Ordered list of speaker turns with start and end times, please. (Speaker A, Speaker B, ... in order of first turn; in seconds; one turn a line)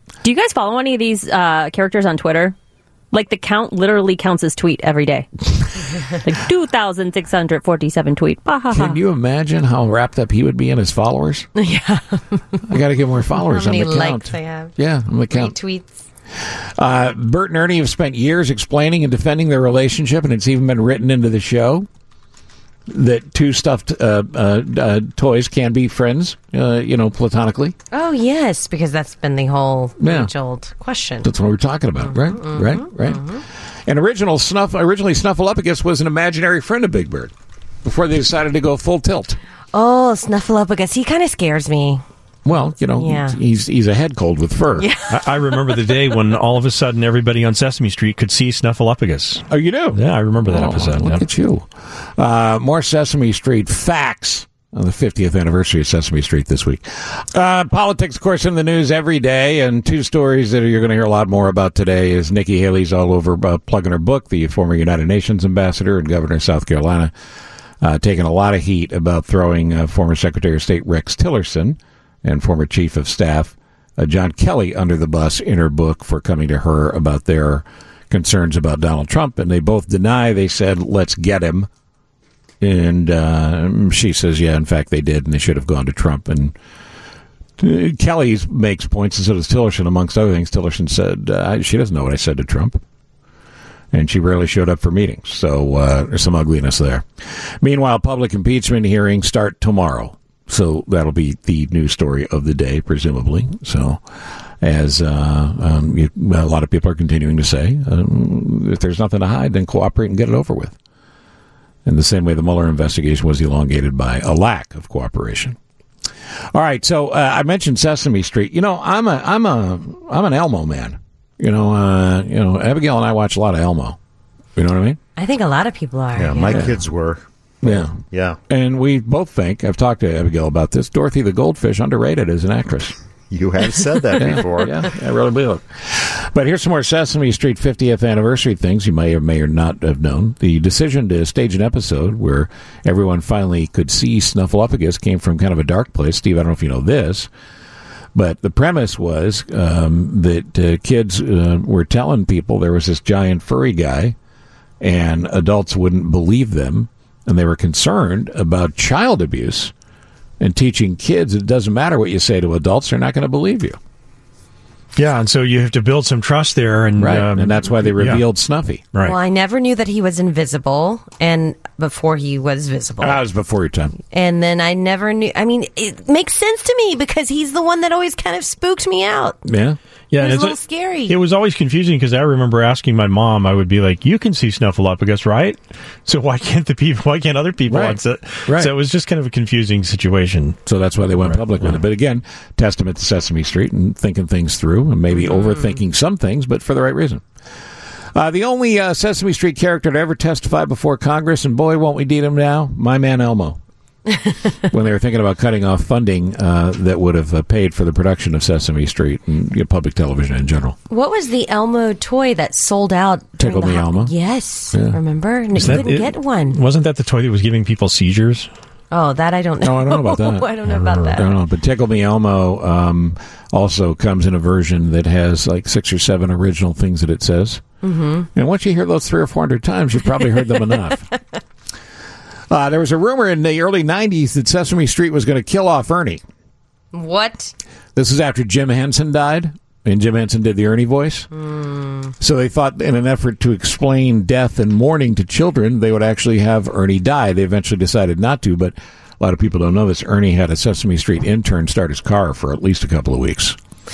Speaker A: 0.2-2.5
Speaker A: 3.1-5.3
Speaker A: 6.1-8.9
Speaker B: 8.7-11.5
Speaker C: 11.6-12.4
Speaker B: 12.7-15.6
Speaker C: 13.5-14.7
Speaker C: 15.3-16.0
Speaker B: 16.8-21.9
Speaker B: 22.9-27.7
Speaker C: 27.9-31.3
Speaker B: 30.0-30.3
Speaker B: 31.2-33.2
Speaker C: 32.0-33.4
Speaker B: 33.9-37.3
Speaker B: 37.8-39.4
Speaker C: 39.7-42.0
Speaker B: 42.4-44.9
Speaker C: 43.0-43.4
Speaker C: 44.8-45.1
Speaker D: 45.1-51.2
Speaker B: 49.5-67.1
Speaker B: 67.8-81.7
Speaker B: 82.6-86.5
Speaker B: 87.6-92.8
Speaker B: 93.9-97.1
Speaker B: 97.6-104.0
Speaker B: 104.6-110.8
Speaker B: 111.8-115.6
Speaker B: 116.5-124.0
Speaker B: 124.5-125.0
Speaker C: 125.2-126.7
Speaker E: 126.2-128.4
Speaker B: 126.5-126.8
Speaker B: 127.6-132.9
Speaker E: 133.3-134.9
Speaker B: 134.1-147.3
Speaker B: 148.1-154.1
Speaker B: 154.8-159.7
Speaker B: 160.4-163.8
Speaker D: 164.9-168.2
Speaker B: 167.0-168.8
Speaker C: 169.0-173.2
Speaker B: 173.0-173.9
Speaker C: 174.1-179.4
Speaker B: 179.4-179.8
Speaker D: 180.1-190.6
Speaker C: 180.2-181.2
Speaker B: 187.7-188.7
Speaker B: 190.7-197.2
Speaker D: 191.2-191.8
Speaker C: 195.1-195.8
Speaker B: 198.1-203.6
Speaker B: 204.7-210.8
Speaker C: 210.9-216.6
Speaker B: 213.4-214.1
Speaker B: 214.7-215.0
Speaker D: 215.6-218.5
Speaker B: 215.6-215.9
Speaker C: 218.9-221.3
Speaker B: 219.6-220.5
Speaker D: 220.7-221.1
Speaker B: 221.1-227.6
Speaker C: 227.8-228.3
Speaker B: 228.3-231.0
Speaker B: 232.5-236.2
Speaker C: 236.9-237.5
Speaker B: 237.9-241.3
Speaker C: 241.3-242.1
Speaker B: 242.2-253.6